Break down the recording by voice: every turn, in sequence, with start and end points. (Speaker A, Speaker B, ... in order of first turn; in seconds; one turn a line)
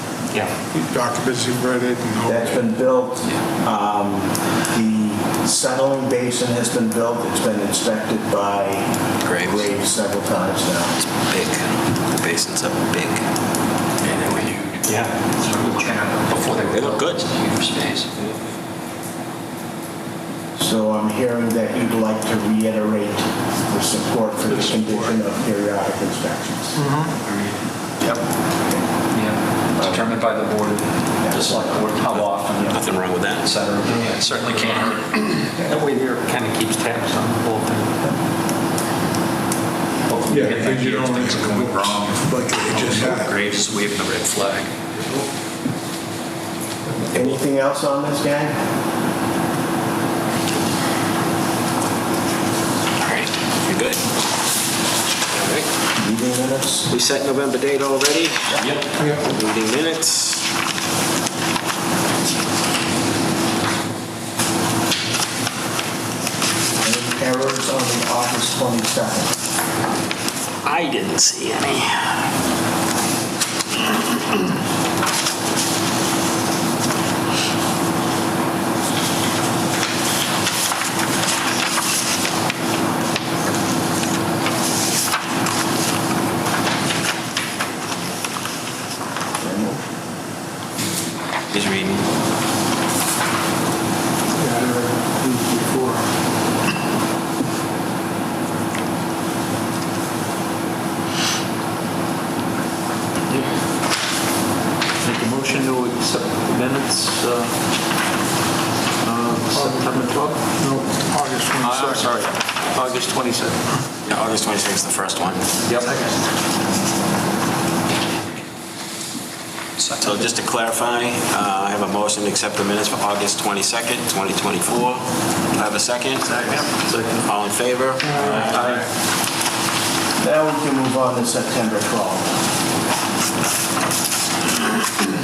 Speaker A: 0.7-2.7
Speaker B: 2.2-10.9
Speaker C: 9.2-9.7
Speaker C: 11.0-13.2
Speaker D: 14.0-18.2
Speaker E: 14.8-15.6
Speaker C: 16.7-17.2
Speaker B: 20.6-26.8
Speaker A: 26.8-27.1
Speaker D: 29.1-35.2
Speaker B: 29.8-30.1
Speaker B: 31.2-31.7
Speaker C: 32.7-33.5
Speaker E: 33.9-38.0
Speaker D: 40.1-44.7
Speaker A: 40.3-43.4
Speaker B: 47.1-48.6
Speaker C: 53.0-54.0
Speaker C: 55.3-55.7
Speaker B: 56.0-56.9
Speaker C: 56.9-60.4
Speaker D: 58.6-58.9
Speaker A: 59.0-59.2
Speaker B: 66.8-69.3
Speaker C: 70.6-72.2
Speaker B: 89.4-89.8
Speaker C: 91.5-92.0
Speaker A: 94.3-96.1
Speaker E: 105.0-107.5
Speaker E: 109.0-110.4
Speaker A: 109.5-112.3
Speaker E: 111.6-113.6
Speaker C: 114.1-115.5
Speaker E: 115.6-116.1
Speaker D: 119.8-120.3
Speaker C: 120.0-126.7
Speaker E: 126.3-127.2
Speaker C: 127.2-128.4
Speaker E: 128.0-128.9
Speaker A: 128.0-128.4
Speaker B: 130.2-132.3